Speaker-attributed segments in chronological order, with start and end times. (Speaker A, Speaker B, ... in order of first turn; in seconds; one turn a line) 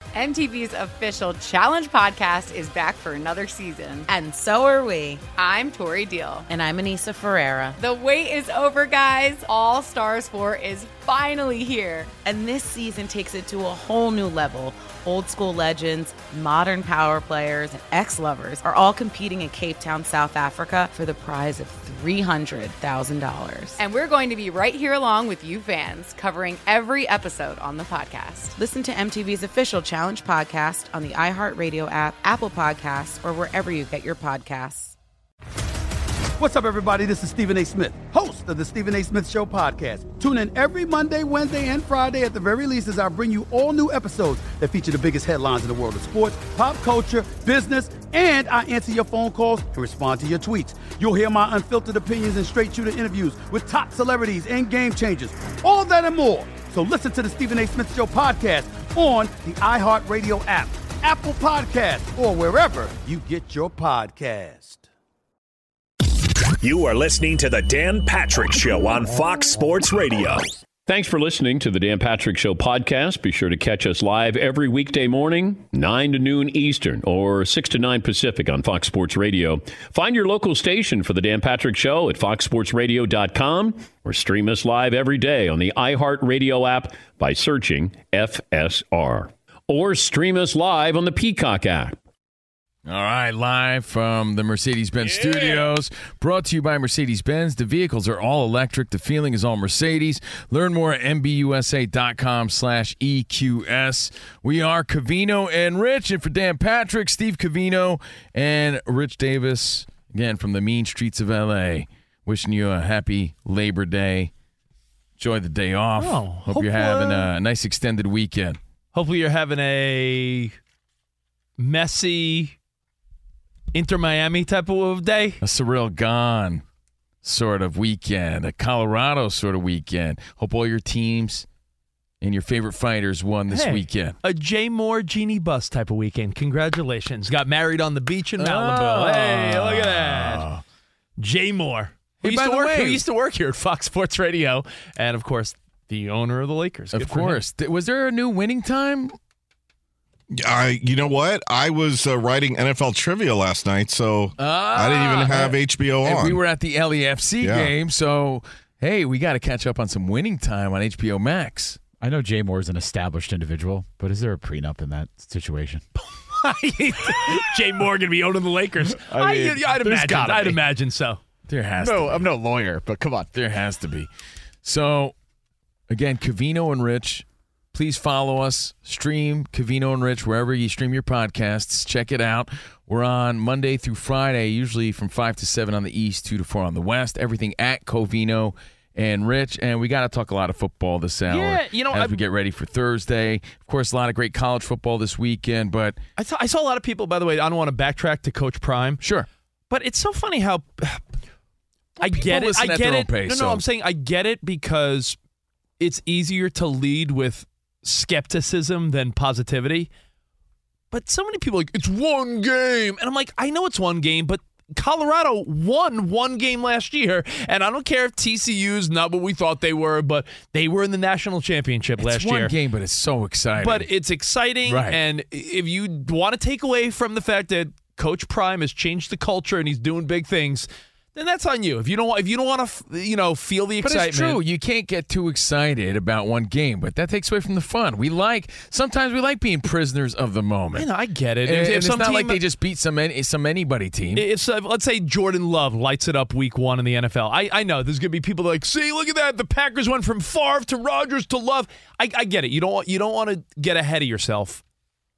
Speaker A: 0.1-4.1
Speaker B: 4.1-5.3
Speaker A: 5.3-6.5
Speaker B: 6.5-7.8
Speaker A: 7.8-12.1
Speaker B: 12.2-23.8
Speaker A: 23.8-28.6
Speaker B: 28.5-34.9
Speaker C: 36.4-64.8
Speaker D: 66.6-70.5
Speaker E: 70.8-92.0
Speaker F: 92.8-114.3
Speaker F: 115.2-118.6
Speaker G: 116.0-117.3
Speaker G: 118.9-120.5
Speaker G: 121.6-122.5
Speaker G: 123.7-125.4
Speaker F: 125.4-126.6
Speaker F: 127.2-131.4
Speaker F: 132.2-134.2
Speaker G: 133.5-140.4
Speaker F: 138.4-140.6
Speaker G: 141.2-147.4
Speaker F: 142.2-143.0
Speaker F: 146.9-149.1
Speaker H: 150.3-156.4
Speaker F: 154.4-161.8
Speaker H: 157.4-157.7
Speaker I: 162.0-165.8
Speaker G: 166.3-171.2
Speaker I: 168.9-170.6
Speaker F: 171.5-172.2
Speaker I: 171.8-173.3
Speaker F: 173.3-174.1
Speaker F: 174.6-175.1
Speaker F: 175.9-196.0
Speaker G: 191.3-192.2
Speaker G: 196.2-199.0
Speaker F: 199.0-199.3
Speaker G: 199.7-201.0
Speaker G: 202.0-205.2
Speaker F: 202.0-203.6
Speaker G: 205.8-209.9
Speaker G: 210.9-222.5
Speaker F: 222.0-223.9
Speaker G: 223.6-234.4
Speaker F: 224.7-225.0
Speaker F: 233.8-240.9
Speaker G: 240.7-242.4
Speaker F: 241.4-244.2
Speaker G: 244.1-254.6